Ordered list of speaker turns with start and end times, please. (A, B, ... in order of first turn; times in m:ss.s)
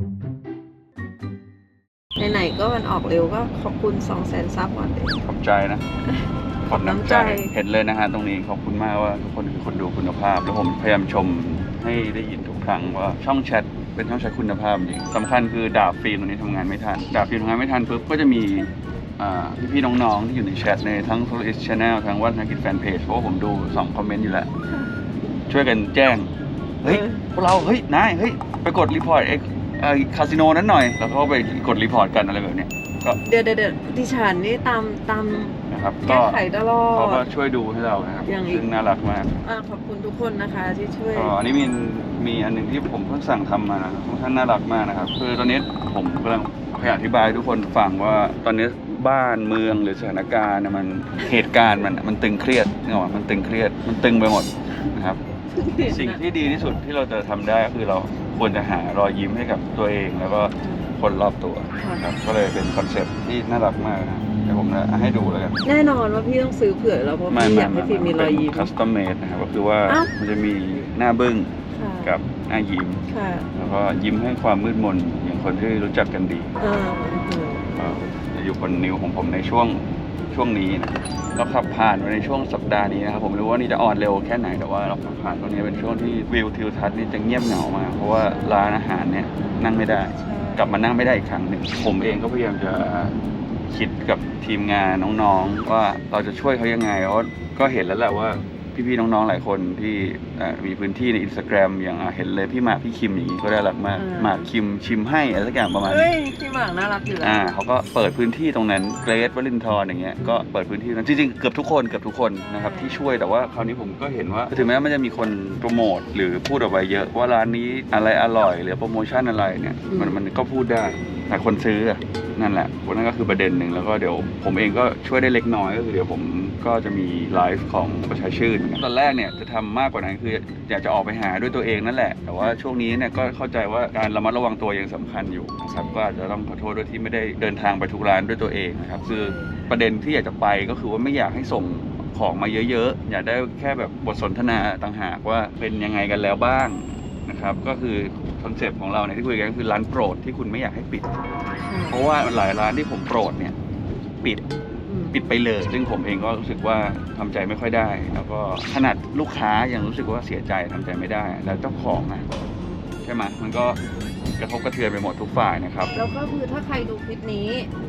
0:02.2-0:05.2 A
0:05.2-0:05.8 B
0:06.1-0:07.5 A
0:06.7-0:24.5 B
0:25.5-0:33.2 B
0:26.8-0:27.2 A
0:33.2-0:37.2 A
0:35.7-0:39.3 B
0:38.2-0:38.6 A
0:39.4-0:41.3 A
0:41.1-0:55.2 B
0:55.5-0:56.2 A
0:55.8-1:05.6 B
1:00.6-1:00.9 A
1:01.8-1:02.0 A
1:05.6-1:08.7 A
1:07.3-1:11.5 B
1:11.7-1:12.2 A
1:12.0-1:16.5 B
1:13.1-1:13.5 A
1:16.6-1:17.7 A
1:17.7-1:33.1 B
1:28.1-1:28.6 A
1:30.1-1:30.9 A
1:33.7-1:46.1 B
1:43.9-1:44.5 A
1:45.8-1:47.4 A
1:47.2-2:31.0 B
1:52.4-1:53.0 A
1:59.9-2:00.2 A
2:12.2-2:12.5 A
2:15.7-2:16.1 A
2:19.0-2:19.7 A
2:31.6-2:32.0 A
2:31.9-2:33.5 B
2:34.9-2:35.1 A
2:35.1-2:42.3 B
2:42.6-2:42.9 A
2:43.0-2:43.8 B
2:44.4-2:45.9 B
2:45.9-2:47.7 A